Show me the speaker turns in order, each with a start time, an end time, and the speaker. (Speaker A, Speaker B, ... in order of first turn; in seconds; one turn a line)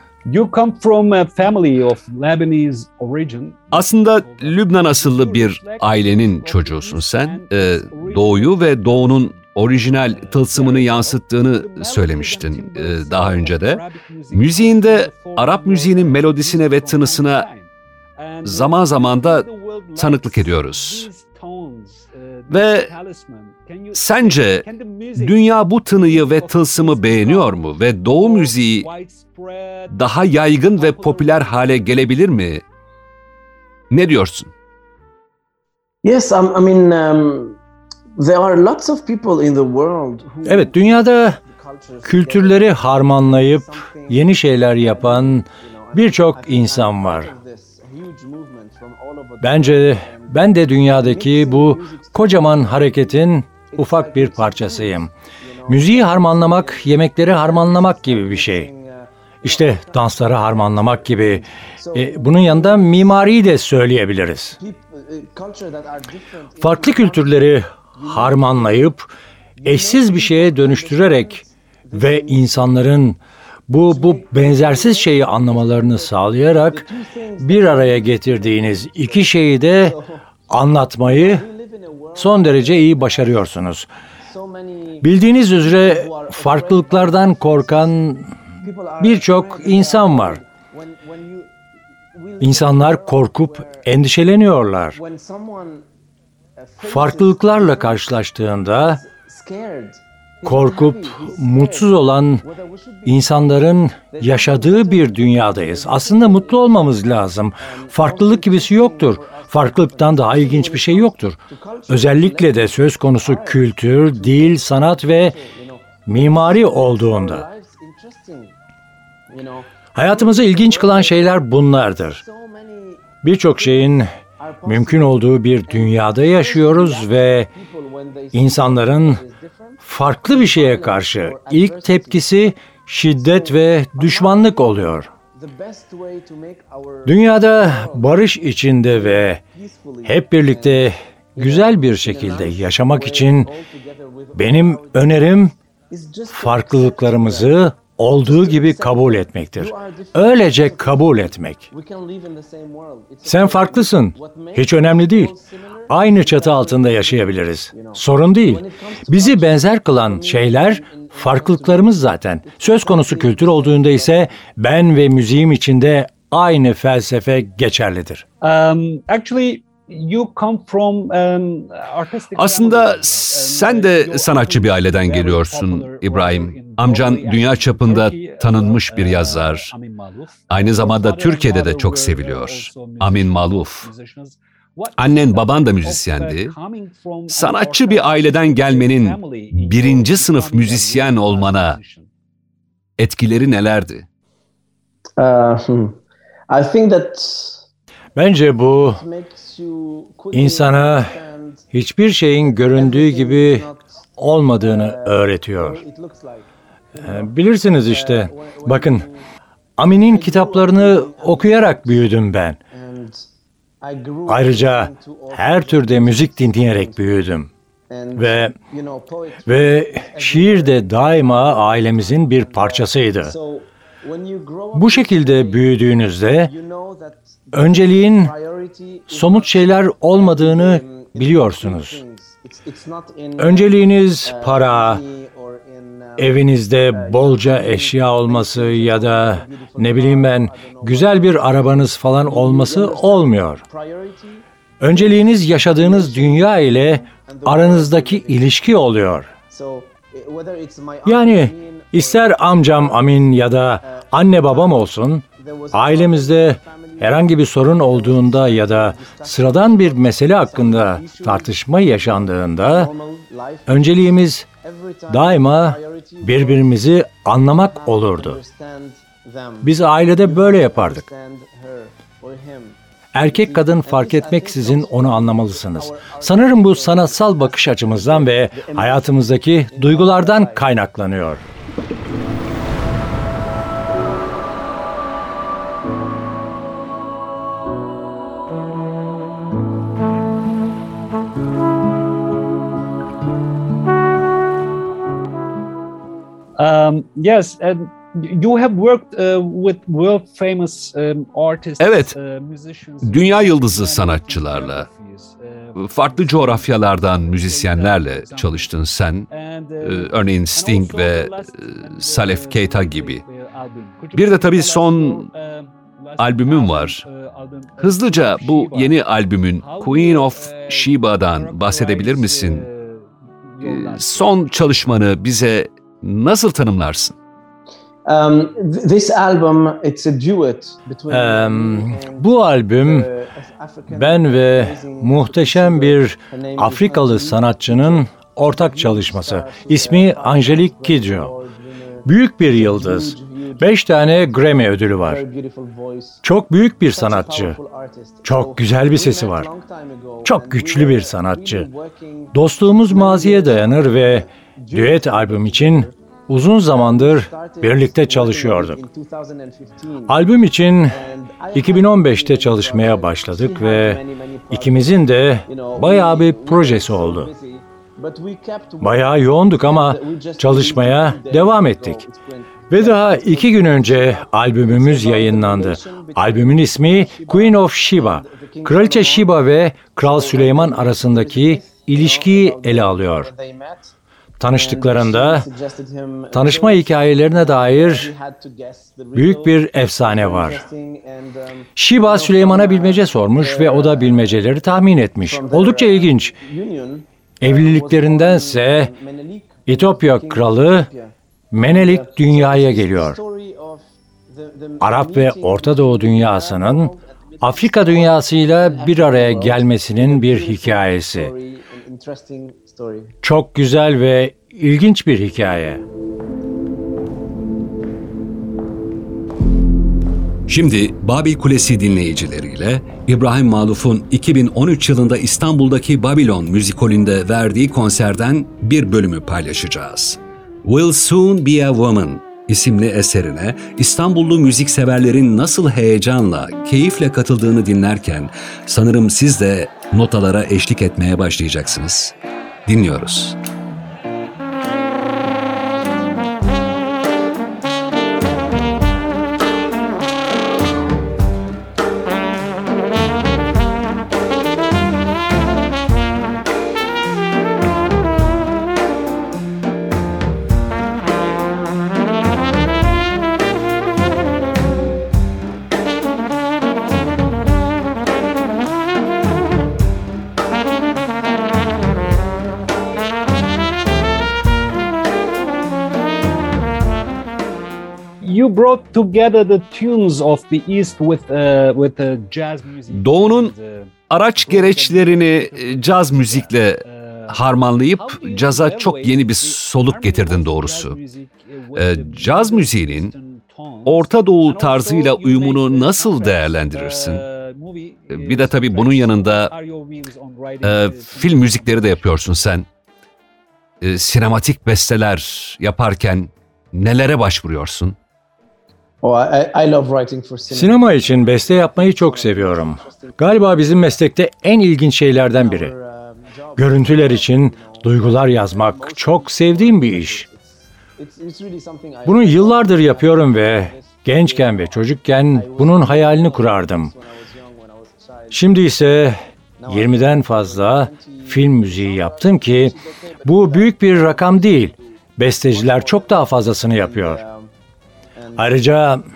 Speaker A: 0.2-32.0
Speaker B: 3.7-17.4
Speaker B: 18.4-21.1
Speaker B: 22.5-22.9
Speaker B: 23.9-28.9
Speaker B: 29.9-32.6
Speaker B: 33.9-34.5
Speaker C: 36.0-37.6
Speaker C: 38.1-63.4
Speaker D: 40.4-41.4
Speaker D: 42.0-47.3
Speaker D: 49.4-55.1
Speaker D: 55.7-58.7
Speaker D: 59.4-64.6
Speaker C: 64.6-68.9
Speaker D: 66.6-69.1
Speaker C: 69.6-73.0
Speaker D: 69.6-76.8
Speaker C: 73.8-80.2
Speaker D: 77.4-80.0
Speaker D: 80.5-81.5
Speaker C: 81.0-83.5
Speaker D: 82.2-83.9
Speaker C: 84.2-88.0
Speaker D: 85.0-88.3
Speaker C: 88.6-91.5
Speaker D: 89.0-90.4
Speaker C: 92.1-93.9
Speaker D: 92.4-95.0
Speaker C: 94.9-95.8
Speaker C: 96.6-103.5
Speaker D: 96.8-99.0
Speaker D: 100.4-102.4
Speaker D: 103.0-111.4
Speaker C: 104.1-106.8
Speaker C: 107.6-118.5
Speaker D: 111.9-115.4
Speaker D: 116.0-117.5
Speaker C: 119.3-132.5
Speaker D: 119.9-122.2
Speaker D: 123.2-124.1
Speaker D: 124.7-127.5
Speaker D: 128.3-129.2
Speaker D: 129.8-135.1
Speaker C: 133.0-164.4
Speaker D: 137.0-139.4
Speaker D: 140.0-143.5
Speaker D: 144.3-145.5
Speaker D: 146.3-151.7
Speaker D: 153.2-155.3
Speaker D: 155.9-168.2
Speaker A: 168.4-192.1
Speaker B: 172.3-179.7
Speaker B: 180.5-183.9
Speaker B: 185.0-186.5
Speaker B: 187.3-191.8
Speaker B: 193.0-194.1
Speaker C: 195.2-197.6
Speaker D: 198.2-199.0
Speaker C: 198.8-201.7
Speaker D: 200.3-201.2
Speaker D: 201.7-203.7
Speaker C: 202.4-204.0
Speaker D: 204.2-205.8
Speaker C: 204.6-207.3
Speaker D: 206.9-209.1
Speaker C: 207.9-209.3
Speaker D: 209.8-212.6
Speaker C: 209.9-212.1
Speaker C: 212.7-213.2
Speaker C: 213.8-217.2
Speaker D: 214.3-217.5
Speaker C: 217.9-225.7
Speaker D: 218.2-218.5
Speaker D: 219.4-223.3
Speaker D: 224.7-226.5
Speaker C: 226.4-248.5
Speaker D: 227.5-228.3
Speaker D: 229.1-232.0
Speaker D: 233.4-235.0
Speaker D: 236.2-243.6
Speaker D: 244.8-249.3
Speaker C: 249.5-253.2
Speaker D: 251.1-262.9
Speaker C: 253.8-264.0
Speaker D: 263.7-264.4
Speaker C: 264.6-266.8
Speaker D: 265.1-268.4
Speaker C: 267.4-280.7
Speaker D: 269.6-271.0
Speaker D: 273.1-281.4
Speaker A: 296.6-308.7
Speaker B: 301.8-302.1
Speaker B: 303.0-304.9
Speaker B: 305.8-309.3
Speaker A: 309.3-324.5
Speaker B: 309.8-313.2
Speaker B: 314.1-315.3
Speaker B: 316.2-317.0
Speaker B: 317.8-322.7
Speaker B: 323.6-327.1
Speaker C: 328.1-346.2
Speaker D: 331.1-333.1
Speaker D: 333.9-341.3
Speaker D: 342.0-345.2
Speaker D: 346.2-347.6
Speaker C: 346.9-355.9
Speaker D: 348.2-349.5
Speaker D: 350.2-351.7
Speaker D: 352.3-358.8
Speaker C: 356.6-360.2
Speaker D: 360.1-361.0
Speaker C: 360.9-383.9
Speaker D: 361.5-367.3
Speaker D: 368.8-372.0
Speaker D: 372.7-383.3
Speaker D: 384.4-385.5
Speaker C: 384.5-394.4
Speaker D: 386.3-388.1
Speaker D: 389.1-390.6
Speaker D: 391.8-396.3
Speaker C: 395.2-413.1
Speaker D: 397.4-398.9
Speaker D: 399.7-400.9
Speaker D: 401.5-403.2
Speaker D: 404.8-411.3
Speaker D: 413.2-415.8
Speaker B: 420.5-442.1
Speaker B: 442.6-443.4
Speaker A: 478.2-483.9
Speaker B: 482.9-483.5
Speaker B: 484.1-491.0
Speaker A: 484.4-502.4
Speaker C: 484.5-485.3
Speaker B: 491.7-493.1
Speaker B: 493.8-497.2
Speaker B: 498.1-499.5
Speaker B: 500.6-502.7
Speaker B: 503.8-508.0
Speaker C: 509.0-514.0
Speaker D: 510.5-515.7
Speaker C: 515.3-528.5
Speaker D: 516.6-520.2
Speaker D: 522.0-526.9
Speaker D: 528.3-537.2
Speaker C: 529.6-537.5
Speaker C: 538.1-538.6
Speaker D: 538.4-539.0